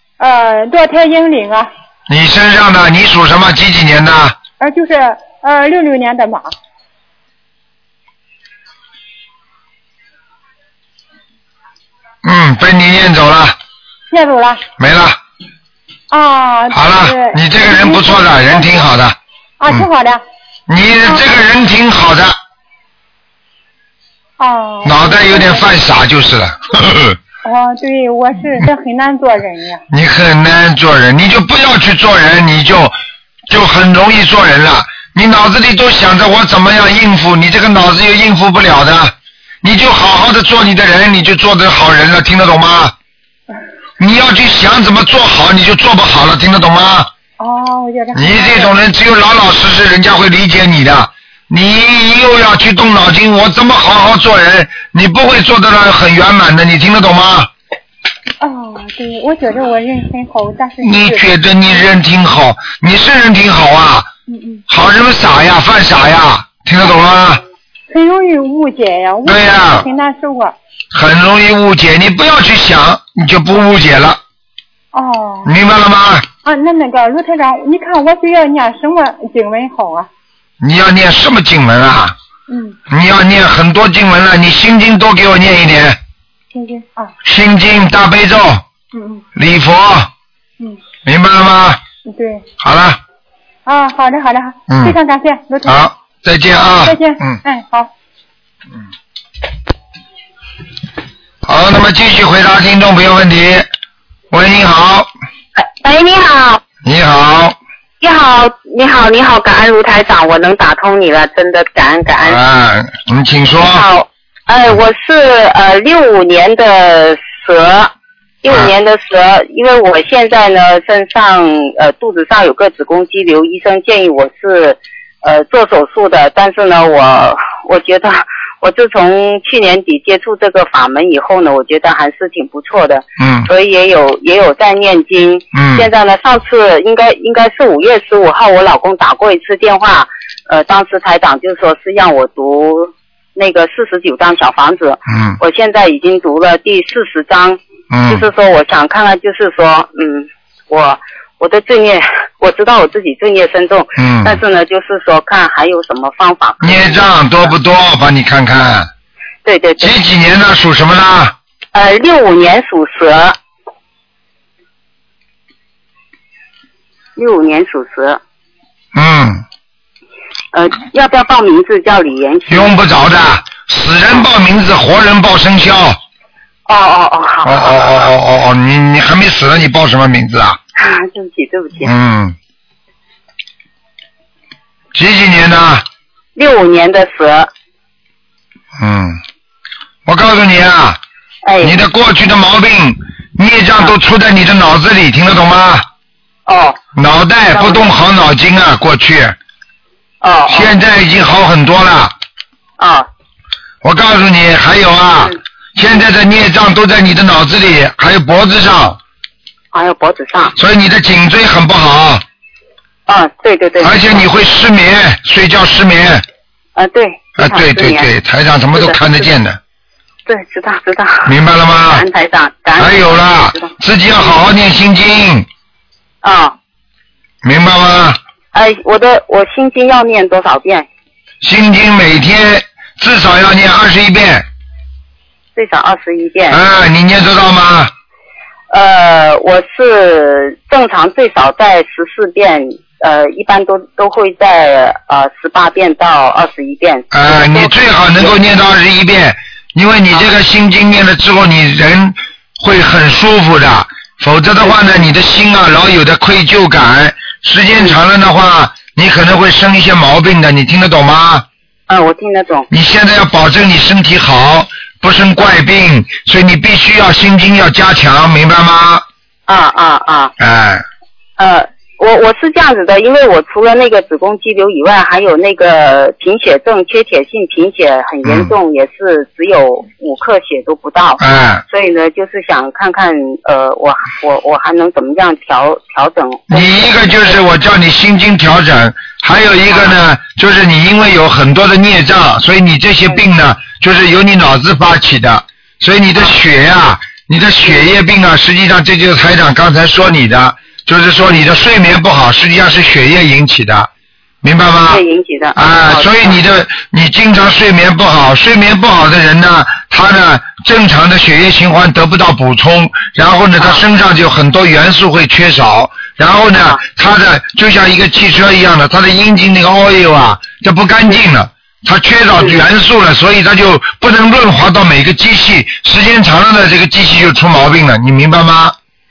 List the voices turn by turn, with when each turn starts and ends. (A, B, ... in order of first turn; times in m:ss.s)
0:00.2-0:01.7 A
0:02.1-0:04.4 B
0:04.6-0:06.5 A
0:12.2-0:13.6 B
0:14.1-0:14.6 A
0:14.8-0:15.2 B
0:16.1-0:18.8 A
0:16.7-0:19.2 B
0:19.6-0:20.2 A
0:20.7-0:22.4 B
0:21.0-0:21.2 A
0:24.4-0:25.7 A
0:24.8-0:27.2 B
0:27.4-0:29.8 A
0:29.9-0:33.0 B
0:33.5-0:42.9 B
0:44.0-0:47.1 B
0:47.4-0:48.8 A
0:48.1-0:57.5 B
0:58.4-1:01.3 A
1:00.8-1:04.1 B
1:04.3-1:04.6 A
1:04.7-1:07.4 B
1:07.9-1:10.5 A
1:09.2-1:09.9 B
1:10.9-1:14.2 B
1:14.9-1:15.5 A
1:15.4-1:16.2 B
1:16.4-1:20.1 A
1:20.6-1:22.2 B
1:22.5-1:22.8 A
1:22.9-1:26.0 B
1:26.5-1:27.1 A
1:27.2-1:28.6 B
1:28.9-1:29.2 A
1:29.4-1:30.1 B
1:31.0-1:31.8 B
1:32.1-1:32.4 A
1:32.6-1:33.0 B
1:33.6-1:35.9 A
1:34.7-1:35.0 B
1:35.6-1:37.4 B
1:36.7-1:37.9 A
1:41.4-1:43.7 B
1:44.3-1:45.1 B
1:45.6-1:46.6 C
1:46.8-1:47.6 B
1:48.0-1:52.4 C
1:52.2-1:53.8 B
1:53.6-1:57.9 C
1:58.4-2:37.5 C
2:13.2-2:13.5 B
2:15.5-2:15.9 B
2:25.1-2:25.4 B
2:27.9-2:28.2 B
2:34.0-2:34.4 B
2:36.6-2:38.9 B
2:39.4-2:40.0 C
2:39.8-2:41.3 B
2:41.7-2:43.4 C
2:47.2-2:48.2 C
2:48.9-2:49.4 B
2:50.5-2:52.8 C
2:52.5-2:56.0 B
2:56.7-2:58.1 C
2:57.4-3:00.6 B
3:00.8-3:01.9 C
3:01.8-3:02.4 B
3:04.9-3:05.8 B
3:06.4-3:07.5 C
3:08.8-3:09.2 B
3:10.0-3:11.0 B
3:11.4-3:11.8 C
3:11.6-3:15.8 B
3:16.5-3:16.8 C
3:16.9-3:19.4 B
3:17.5-3:17.8 C
3:20.2-3:20.7 C
3:20.5-3:22.1 B
3:22.8-3:23.1 C
3:23.8-3:29.0 B
3:29.7-3:30.5 C
3:30.6-3:32.2 B
3:33.1-3:34.2 C
3:33.8-3:36.2 B
3:36.8-3:38.1 C
3:37.4-3:39.6 B
3:38.7-3:39.3 C
3:40.2-3:41.3 C
3:41.2-3:42.0 B
3:41.9-3:43.7 C
3:42.8-3:45.5 B
3:46.2-3:46.5 C
3:47.4-3:48.2 B
3:48.5-3:50.9 C
3:51.4-3:54.4 B
3:55.6-3:56.6 C
3:56.5-3:57.9 B
3:58.7-4:08.4 C
4:07.1-4:21.4 B
4:14.6-4:15.0 C
4:21.9-4:22.7 C
4:22.7-4:29.0 B
4:29.5-4:30.3 C
4:30.4-4:30.8 B
4:31.4-4:47.4 C
4:38.2-4:38.5 B
4:41.2-4:41.6 B
4:46.5-5:03.9 B
5:04.4-5:05.0 B
5:04.9-5:06.4 C
5:05.5-5:28.8 B
5:13.6-5:13.8 C
5:16.6-5:16.8 C